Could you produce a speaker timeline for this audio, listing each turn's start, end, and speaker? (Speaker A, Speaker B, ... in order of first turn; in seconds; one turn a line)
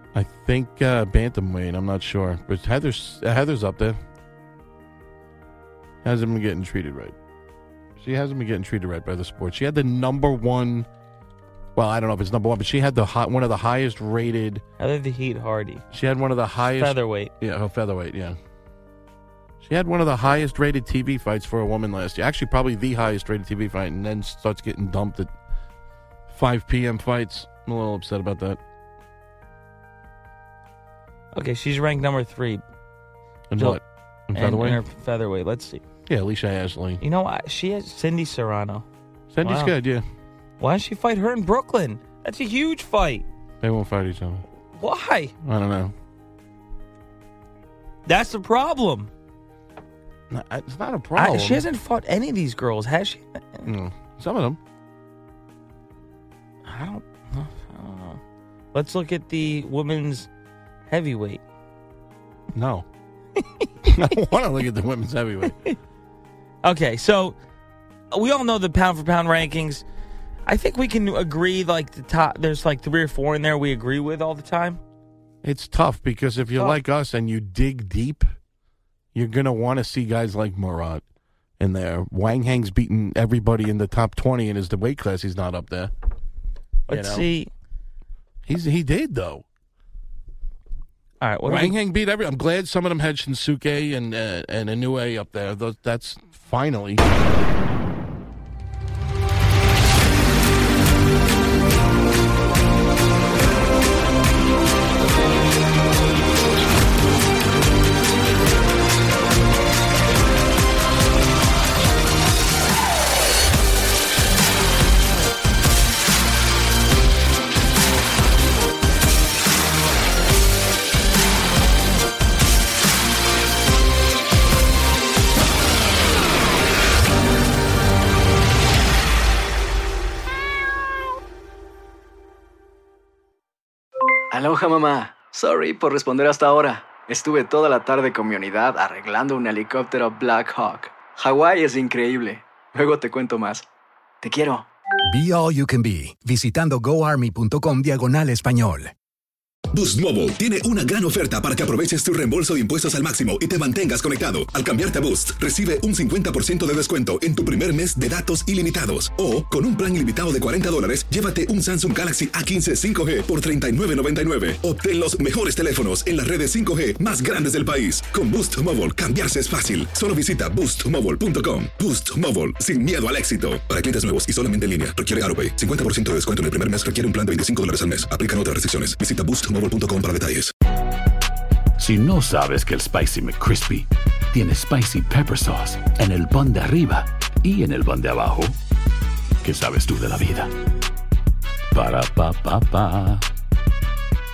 Speaker A: 0.1-4.0
Speaker A: 6.0-7.2
Speaker A: 8.0-10.9
Speaker A: 11.8-14.6
Speaker B: 14.8-15.8
Speaker A: 15.9-18.4
Speaker B: 16.7-17.3
Speaker A: 19.6-25.3
Speaker A: 26.3-28.6
Speaker B: 31.3-32.6
Speaker A: 33.5-34.8
Speaker B: 34.3-35.8
Speaker A: 36.1-37.0
Speaker B: 37.0-38.9
Speaker A: 39.3-40.0
Speaker B: 39.4-39.8
Speaker B: 40.6-43.2
Speaker A: 43.6-44.4
Speaker B: 44.7-45.3
Speaker A: 45.4-45.9
Speaker B: 48.0-49.1
Speaker A: 50.3-51.6
Speaker B: 51.1-53.7
Speaker A: 53.6-54.6
Speaker B: 56.6-58.2
Speaker B: 58.7-60.3
Speaker B: 60.9-61.4
Speaker A: 62.5-62.9
Speaker B: 63.4-63.7
Speaker A: 63.8-65.6
Speaker B: 66.6-67.3
Speaker B: 68.1-69.8
Speaker B: 70.5-74.8
Speaker A: 75.4-78.3
Speaker A: 79.1-81.0
Speaker A: 81.6-85.9
Speaker B: 86.9-87.5
Speaker A: 86.9-87.3
Speaker A: 88.5-89.4
Speaker B: 91.2-91.8
Speaker A: 91.4-97.0
Speaker C: 134.3-143.7
Speaker C: 144.2-144.7
Speaker D: 145.0-148.9
Speaker E: 149.7-180.5
Speaker F: 181.8-188.5
Speaker F: 189.4-190.5
Speaker F: 191.7-193.2